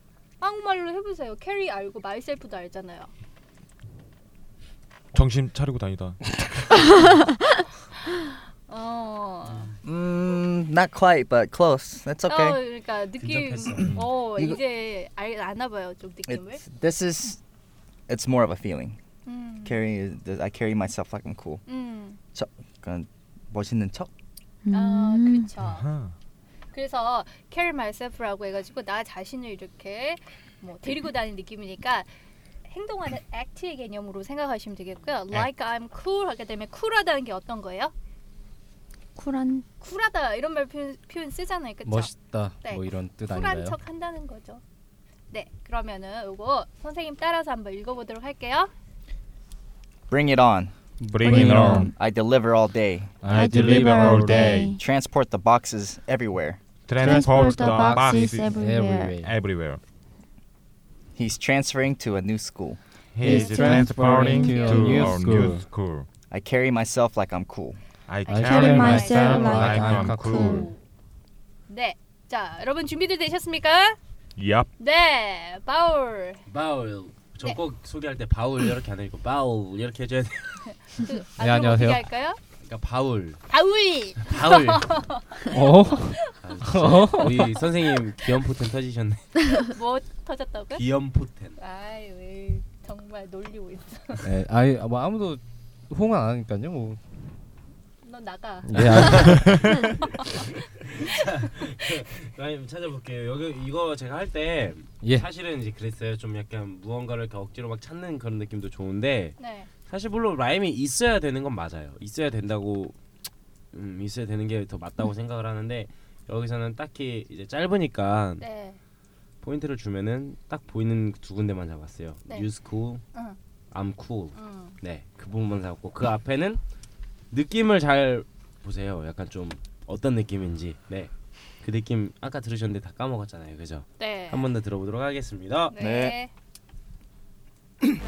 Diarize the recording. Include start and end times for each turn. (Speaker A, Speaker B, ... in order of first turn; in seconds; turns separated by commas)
Speaker A: 0.4-3.1, Speaker B: 5.1-6.4, Speaker A: 8.7-9.7, Speaker C: 9.8-12.6, Speaker A: 12.3-16.6, Speaker D: 13.2-14.0, Speaker C: 16.3-17.4, Speaker C: 18.1-19.0, Speaker A: 19.3-19.8, Speaker C: 19.6-21.6, Speaker A: 21.7-22.2, Speaker C: 22.3-24.1, Speaker E: 24.6-25.5, Speaker A: 24.7-25.9, Speaker B: 25.6-26.1, Speaker A: 26.7-32.1, Speaker A: 32.7-37.9, Speaker E: 39.1-39.6, Speaker A: 39.8-44.6, Speaker F: 41.9-43.8, Speaker A: 45.3-48.7, Speaker C: 50.1-50.7, Speaker F: 51.0-51.9, Speaker B: 51.1-51.9, Speaker E: 51.3-51.9, Speaker C: 51.9-53.2, Speaker F: 53.2-54.6, Speaker E: 53.3-54.8, Speaker B: 53.3-54.7, Speaker C: 54.7-56.6, Speaker B: 56.9-58.5, Speaker E: 56.9-59.2, Speaker F: 57.0-59.4, Speaker B: 59.2-59.8, Speaker C: 61.2-62.8, Speaker B: 63.1-66.1, Speaker F: 63.2-65.7, Speaker E: 63.2-64.7, Speaker A: 64.3-65.2, Speaker C: 66.3-67.8, Speaker B: 68.1-70.7, Speaker A: 68.3-69.6, Speaker F: 68.3-70.7, Speaker E: 68.4-70.7, Speaker A: 70.3-70.8, Speaker A: 71.7-74.0, Speaker B: 74.4-74.7, Speaker A: 74.8-76.4, Speaker D: 76.5-80.7, Speaker A: 80.9-82.4, Speaker F: 81.4-82.0, Speaker D: 82.6-83.4, Speaker A: 83.5-85.5, Speaker D: 84.2-85.0, Speaker F: 85.5-87.6, Speaker A: 86.1-88.1, Speaker D: 86.4-89.3, Speaker A: 89.6-90.8, Speaker D: 90.8-91.6, Speaker A: 91.6-94.2, Speaker F: 94.2-97.0, Speaker A: 98.0-99.2, Speaker F: 98.7-99.6, Speaker D: 98.8-113.0, Speaker B: 99.3-99.7, Speaker F: 105.0-105.3, Speaker A: 109.4-109.7, Speaker D: 113.7-118.5, Speaker A: 118.4-118.8, Speaker D: 119.4-123.0, Speaker D: 123.7-126.6, Speaker A: 124.3-124.8, Speaker D: 127.3-135.7, Speaker A: 134.0-134.5, Speaker A: 135.7-136.3, Speaker C: 135.8-136.2